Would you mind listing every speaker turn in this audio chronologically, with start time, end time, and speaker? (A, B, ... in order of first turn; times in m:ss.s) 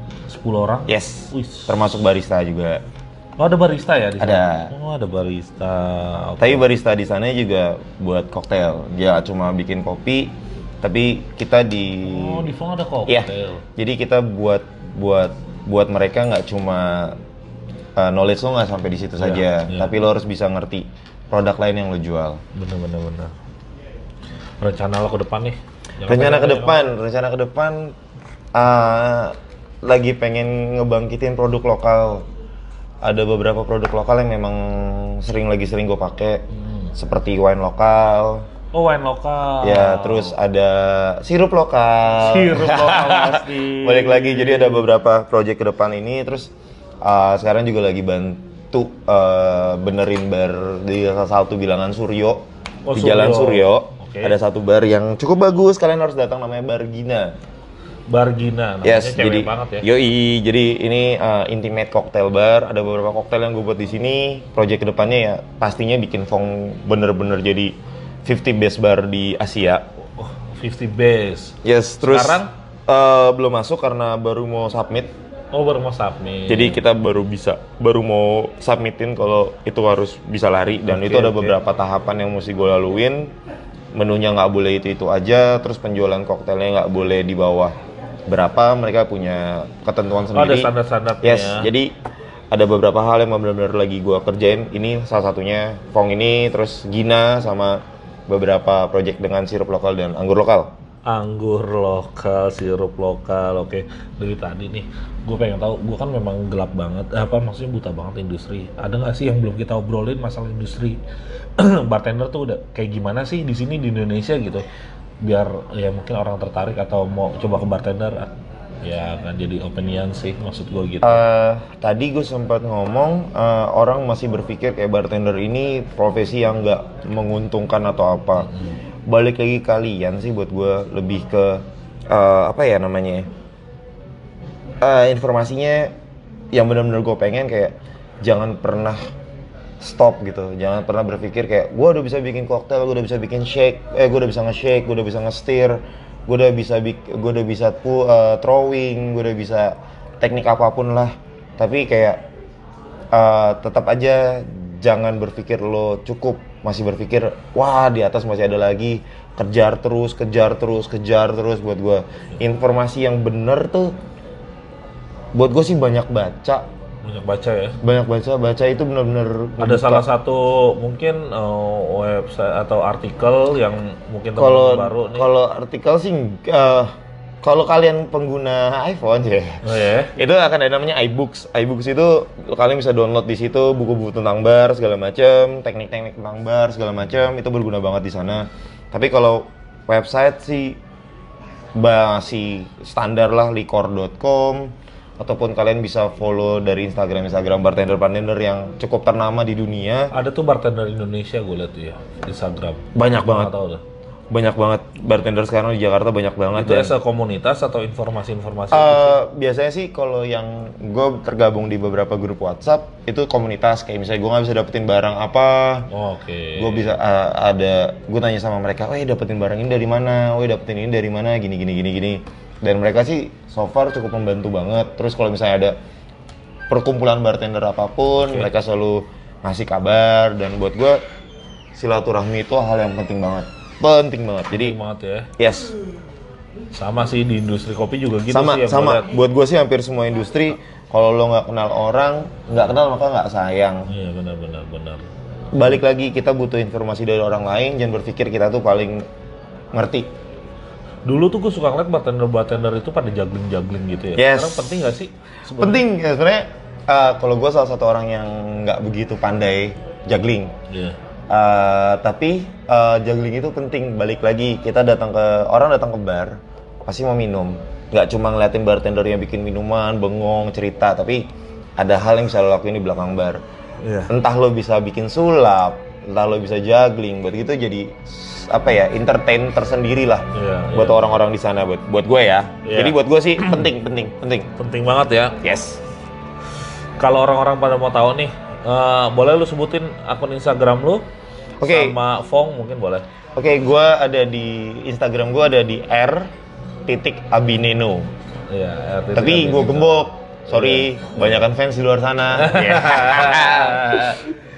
0:00.3-0:01.7 A
0:00.9-0:02.8 B
0:03.4-0:06.6 A
0:04.2-0:04.7 B
0:06.4-0:12.5 B
0:12.0-0:13.6 A
0:13.1-0:17.2 B
0:18.0-0:22.4 B
0:19.2-0:19.9 A
0:22.5-0:23.3 A
0:24.6-0:26.9 A
0:26.1-0:28.0 B
0:28.5-0:32.2 B
0:33.0-0:38.4 B
0:36.6-0:36.9 A
0:38.7-0:40.3 A
0:39.6-0:57.4 B
0:42.2-0:44.8 A
0:52.8-0:54.4 A
0:58.1-0:59.9 A
0:58.8-1:09.8 B
1:10.2-1:12.5 A
1:11.6-1:15.1 B
1:15.5-1:16.8 A
1:16.5-1:23.3 B
1:20.9-1:21.6 A
1:23.9-1:27.8 B
1:28.3-1:31.9 B
1:30.3-1:31.7 A
1:32.5-1:40.7 B
1:41.0-1:51.0 A
1:51.6-1:54.6 A
1:55.2-1:58.3 A
1:58.8-2:01.2 A
2:01.0-2:08.5 B
2:09.0-2:13.3 B
2:14.8-2:15.9 B
2:16.5-2:19.0 B
2:19.8-2:32.2 B
2:33.1-2:44.0 B
2:45.3-2:46.6 B
2:47.0-2:47.8 A
2:47.8-2:50.0 B
2:49.6-2:55.3 A
2:54.4-3:10.8 B
2:59.6-3:00.1 A
3:11.8-3:20.1 B
3:20.1-3:23.8 A
3:22.9-3:23.5 B
3:24.3-3:26.9 B
3:26.5-3:29.2 A
3:28.7-3:35.9 B
3:35.9-3:36.9 A
3:36.5-3:45.8 B
3:46.7-3:51.0 B
3:51.7-3:54.8 B
3:54.5-3:55.3 A
3:55.4-3:55.7 B
3:56.7-3:59.1 A
3:58.3-4:03.9 B
4:03.9-4:05.0 A
4:05.5-4:09.1 B
4:09.7-4:10.1 B
4:11.0-4:15.8 A
4:14.2-4:14.7 B
4:15.6-4:20.5 B
4:20.7-4:21.0 A
4:21.3-4:33.4 B
4:33.8-4:34.1 A
4:34.1-4:44.5 B
4:40.3-4:41.2 A
4:42.6-4:43.0 A
4:44.6-4:45.4 A
4:45.4-4:45.8 B
4:47.0-4:51.0 A
4:51.6-4:52.0 B
4:51.6-4:53.0 A
4:53.4-4:56.3 B
4:56.8-4:58.1 B
4:58.5-5:01.2 A
4:59.1-5:04.2 B
5:02.4-5:04.2 A